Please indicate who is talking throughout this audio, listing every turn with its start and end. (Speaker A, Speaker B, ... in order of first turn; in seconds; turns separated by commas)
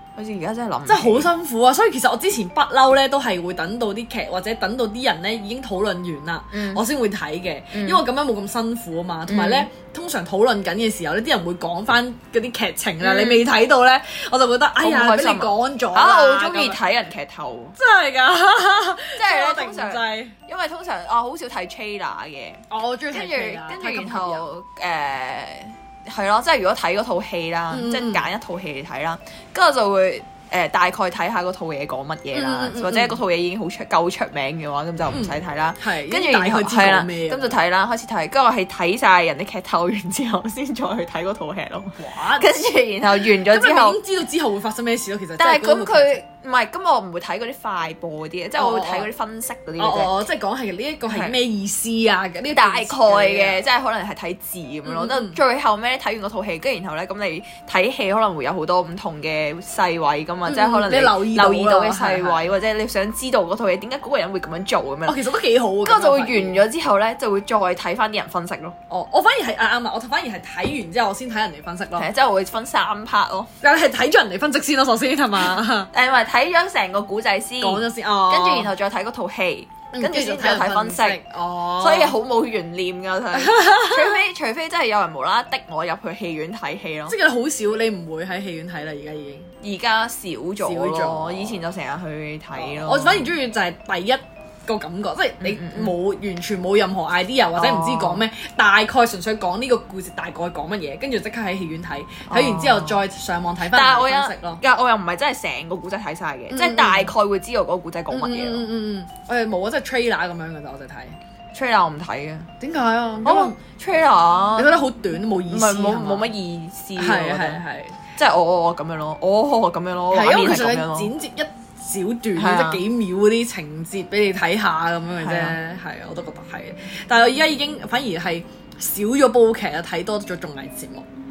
Speaker A: 0.2-1.3, Speaker B: 0.9-16.8, Speaker A: 6.5-6.8, Speaker A: 7.7-8.0, Speaker A: 9.3-9.7, Speaker A: 13.0-13.4, Speaker A: 14.8-17.8, Speaker B: 17.8-20.4, Speaker A: 19.2-44.0, Speaker B: 22.7-24.5, Speaker B: 27.7-28.3, Speaker B: 32.3-33.2, Speaker B: 35.1-37.6, Speaker B: 42.0-42.6, Speaker B: 43.3-46.2, Speaker A: 45.4-50.1, Speaker B: 48.6-49.1, Speaker B: 49.8-53.6, Speaker A: 51.1-51.4, Speaker A: 52.5-65.2, Speaker B: 54.9-55.4, Speaker B: 60.5-62.5, Speaker B: 65.1-66.6, Speaker A: 65.8-68.8, Speaker B: 68.9-72.1, Speaker A: 72.0-73.5, Speaker B: 73.6-75.9, Speaker A: 75.9-81.2, Speaker B: 77.6-78.7, Speaker B: 79.9-82.2, Speaker A: 81.8-87.2, Speaker B: 83.3-84.2, Speaker B: 87.1-89.5, Speaker A: 89.6-93.3, Speaker B: 90.6-91.6, Speaker B: 92.5-104.6, Speaker A: 95.4-95.9, Speaker A: 97.6-98.2, Speaker A: 102.3-103.0, Speaker A: 103.7-108.7, Speaker B: 106.5-107.1, Speaker B: 108.1-111.2, Speaker A: 111.5-112.5, Speaker B: 112.6-113.6, Speaker A: 113.2-114.8, Speaker B: 114.5-116.3, Speaker A: 115.5-117.6, Speaker B: 117.0-118.0, Speaker A: 118.2-121.1, Speaker B: 120.1-131.1, Speaker A: 122.4-122.8, Speaker A: 125.2-125.6